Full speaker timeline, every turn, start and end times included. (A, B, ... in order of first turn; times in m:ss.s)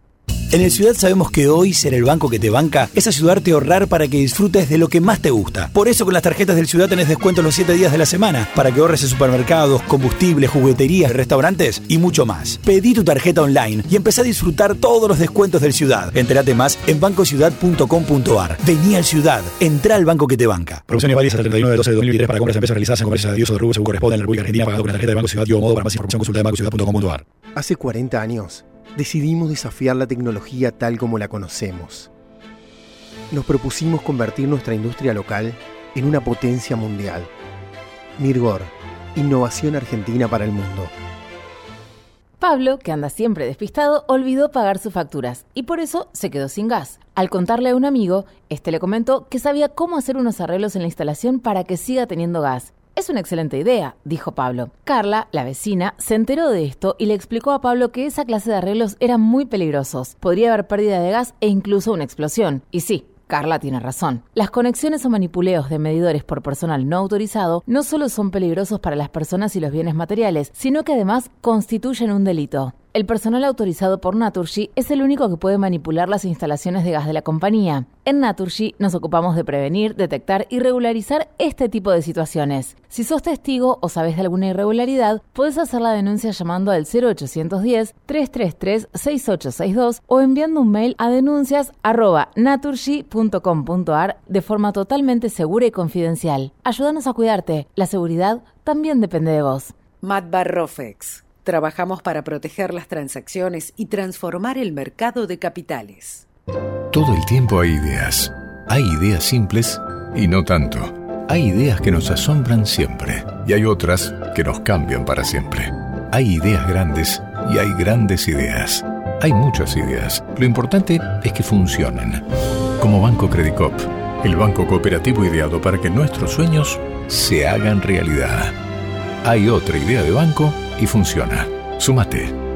0:00.5-0:20.9 A
0:20.9-0:27.2 B
0:27.6-0:32.1 C
0:33.3-0:37.3 C
0:38.2-0:40.9 C
0:42.4-1:39.7 D
1:40.0-1:46.3 E
1:46.9-2:02.2 F
2:02.8-2:08.5 F
2:09.2-2:12.3 F